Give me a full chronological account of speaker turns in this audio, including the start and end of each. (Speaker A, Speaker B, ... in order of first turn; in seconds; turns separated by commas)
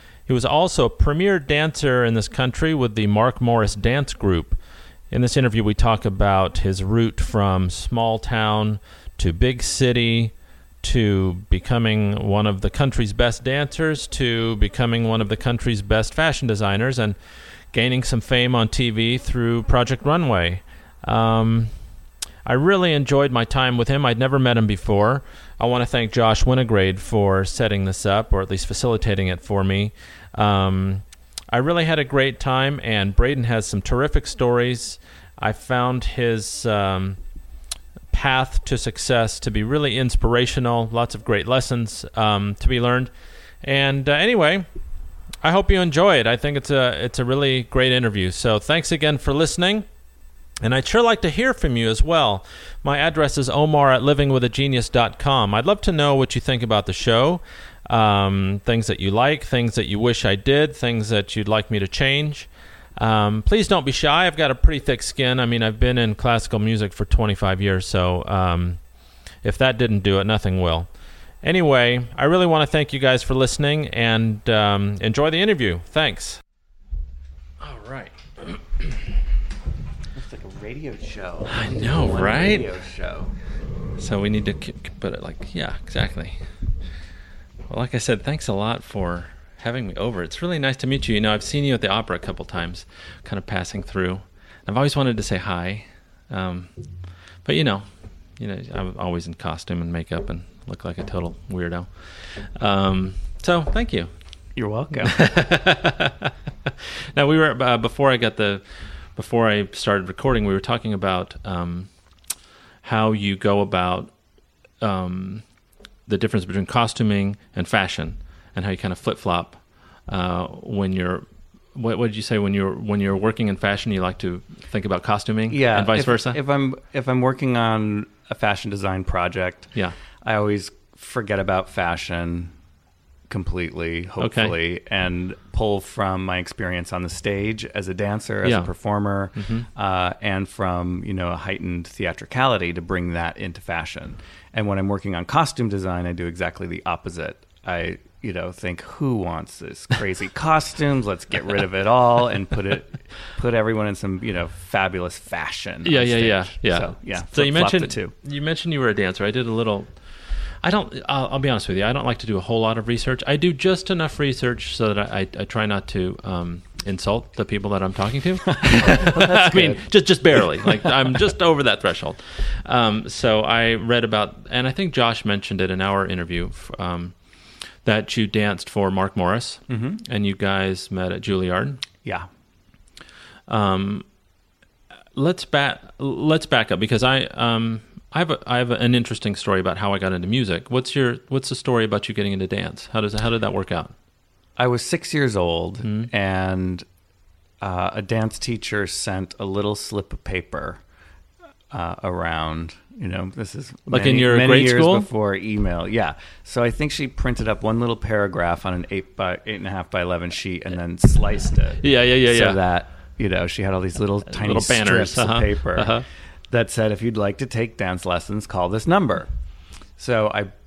Speaker A: 0.3-4.6, Speaker A: 5.1-17.1, Speaker A: 17.7-21.7, Speaker A: 22.4-37.2, Speaker A: 38.1-43.1, Speaker A: 43.6-44.6, Speaker A: 45.4-49.8, Speaker A: 50.6-68.8, Speaker A: 69.4-70.9, Speaker A: 71.4-76.4, Speaker A: 77.6-79.2, Speaker B: 80.1-83.3, Speaker A: 81.5-82.7, Speaker A: 84.0-86.4, Speaker A: 87.7-96.7, Speaker A: 97.4-97.8, Speaker A: 98.4-104.1, Speaker B: 104.5-105.2, Speaker A: 105.0-111.9, Speaker A: 112.8-114.1, Speaker A: 114.8-115.4, Speaker A: 116.1-126.4, Speaker B: 125.5-129.7, Speaker B: 130.2-132.5, Speaker B: 133.3-158.1, Speaker A: 134.2-134.6, Speaker A: 138.4-138.7, Speaker A: 139.4-139.7, Speaker A: 155.8-159.9, Speaker A: 160.6-177.2, Speaker B: 168.5-169.8, Speaker B: 170.3-171.1, Speaker A: 177.8-181.8, Speaker B: 179.7-180.0, Speaker B: 182.0-182.3, Speaker A: 183.5-184.0, Speaker A: 185.1-193.9, Speaker B: 194.6-196.8, Speaker A: 195.8-196.1, Speaker B: 197.6-200.8, Speaker B: 201.7-219.3, Speaker A: 203.9-205.1, Speaker A: 211.8-212.6, Speaker A: 214.3-216.0, Speaker B: 220.0-220.5